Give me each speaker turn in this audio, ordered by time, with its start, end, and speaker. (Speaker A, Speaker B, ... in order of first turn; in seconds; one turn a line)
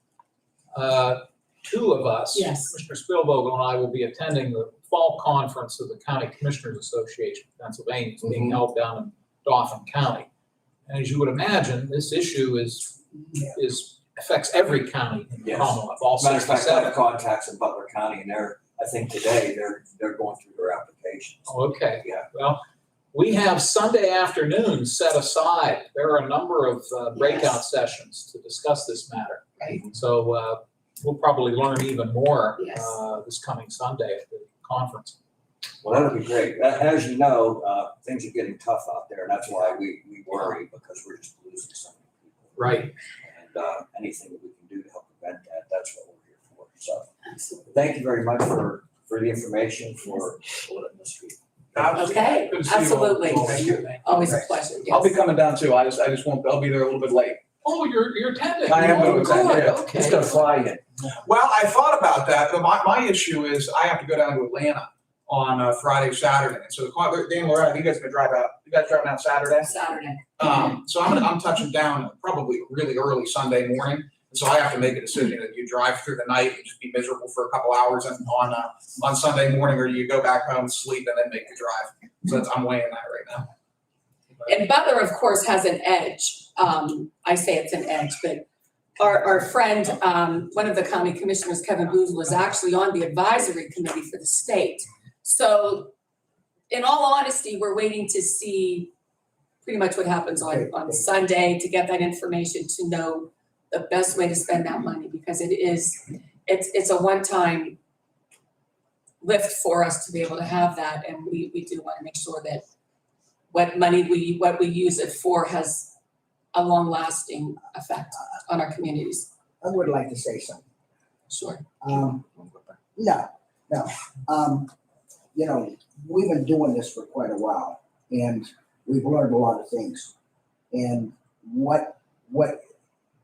Speaker A: 0.7-10.3
Speaker B: 2.3-2.7
Speaker A: 10.9-17.0
Speaker C: 15.4-21.5
Speaker A: 21.5-22.6
Speaker A: 23.1-35.2
Speaker B: 27.1-27.6
Speaker B: 29.6-29.8
Speaker B: 32.6-32.9
Speaker C: 35.8-42.7
Speaker A: 42.6-42.9
Speaker C: 43.3-47.1
Speaker B: 47.2-47.8
Speaker C: 47.7-51.4
Speaker D: 51.8-53.8
Speaker B: 51.9-55.1
Speaker A: 52.5-54.4
Speaker D: 54.9-57.4
Speaker A: 57.6-60.4
Speaker C: 58.7-60.8
Speaker D: 58.8-59.8
Speaker B: 58.8-60.1
Speaker D: 61.2-69.7
Speaker B: 69.6-70.4
Speaker D: 70.4-83.5
Speaker B: 84.5-96.0
Speaker B: 96.7-98.9
Speaker B: 99.6-107.8
Speaker B: 109.2-112.7
Speaker B: 113.5-116.0
Speaker B: 116.5-119.3
Speaker E: 119.6-120.6
Speaker B: 121.3-121.7
Speaker E: 121.8-122.3
Speaker E: 123.0-124.7
Speaker E: 125.3-130.1
Speaker E: 130.7-132.6